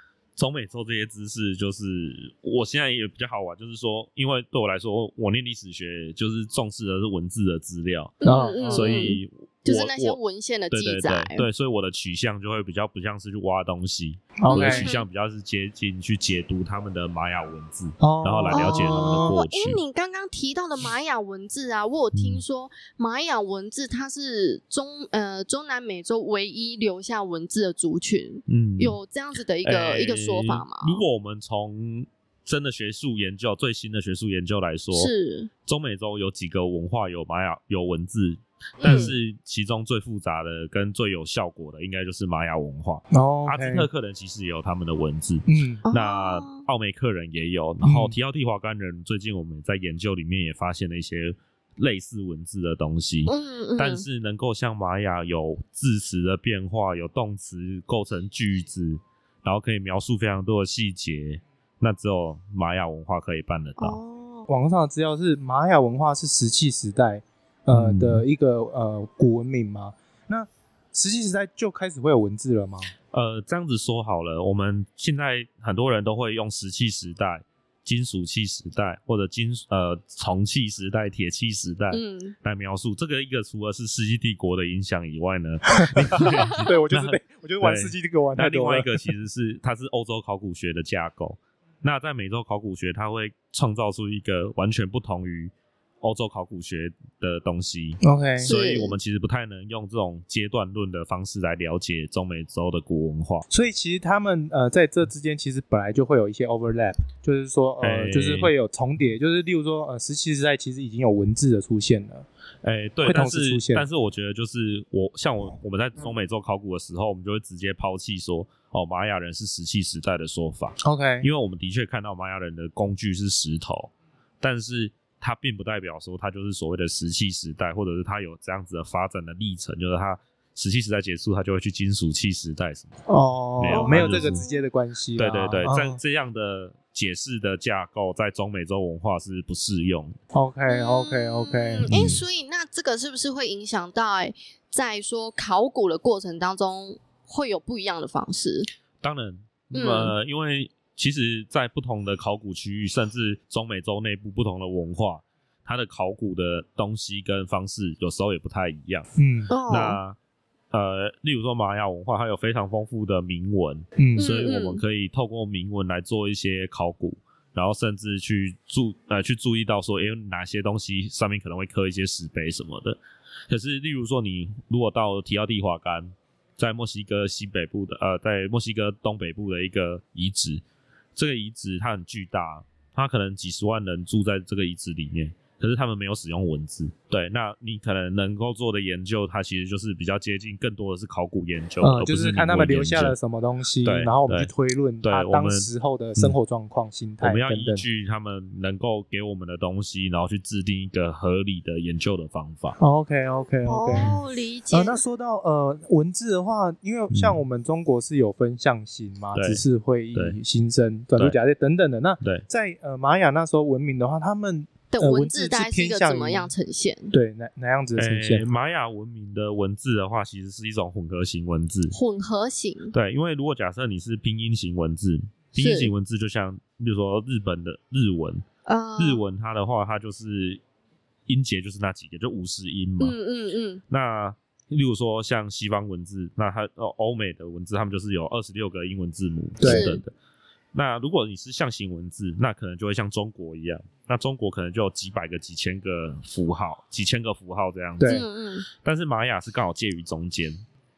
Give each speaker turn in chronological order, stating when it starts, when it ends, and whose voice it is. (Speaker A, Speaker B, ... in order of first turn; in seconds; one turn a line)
Speaker A: 0.4-10.2
Speaker B: 8.2-11.5
Speaker C: 8.2-9.1
Speaker A: 10.7-19.8
Speaker C: 14.4-14.9
Speaker B: 14.5-15.1
Speaker C: 18.0-19.3
Speaker B: 18.5-31.0
Speaker A: 22.1-22.4
Speaker A: 28.5-29.0
Speaker A: 29.6-35.1
Speaker B: 35.0-35.5
Speaker A: 35.7-64.0
Speaker B: 38.8-39.1
Speaker C: 43.1-43.9
Speaker C: 45.5-45.9
Speaker B: 45.9-46.6
Speaker C: 47.8-48.1
Speaker B: 53.3-54.1
Speaker B: 63.8-64.5
Speaker C: 64.5-72.9
Speaker A: 67.7-68.2
Speaker A: 73.1-103.5
Speaker B: 81.9-82.3
Speaker C: 85.8-89.0
Speaker C: 98.0-98.5
Speaker B: 98.4-99.0
Speaker C: 103.5-112.3
Speaker A: 107.8-108.5
Speaker A: 112.6-133.0
Speaker C: 113.0-113.9
Speaker C: 120.8-121.3
Speaker C: 133.1-136.0
Speaker A: 133.6-134.4
Speaker B: 133.6-134.6
Speaker A: 135.2-140.2
Speaker C: 140.3-142.2
Speaker B: 140.7-148.7
Speaker A: 141.9-142.2
Speaker A: 149.0-159.1
Speaker B: 149.7-150.1
Speaker C: 159.2-159.5
Speaker B: 159.5-160.0
Speaker A: 159.7-160.2
Speaker A: 160.7-180.6
Speaker C: 164.0-164.3
Speaker B: 164.2-164.8
Speaker A: 181.2-193.2
Speaker C: 191.8-197.8
Speaker A: 193.8-194.5
Speaker A: 195.0-196.3
Speaker A: 197.2-202.8
Speaker C: 202.8-204.2
Speaker B: 203.7-205.0
Speaker C: 204.7-216.5
Speaker A: 207.1-207.4
Speaker A: 209.3-209.6
Speaker B: 214.9-217.1
Speaker C: 217.1-218.4
Speaker A: 218.0-222.0
Speaker B: 221.9-222.9
Speaker A: 222.9-228.4
Speaker B: 225.6-225.9
Speaker B: 228.7-229.2
Speaker A: 229.0-230.6
Speaker A: 231.3-233.2
Speaker B: 233.0-233.8
Speaker A: 233.9-240.1
Speaker C: 239.6-239.9
Speaker B: 239.6-240.0
Speaker A: 240.7-248.2
Speaker C: 248.0-248.3
Speaker B: 248.1-248.7
Speaker A: 248.8-250.6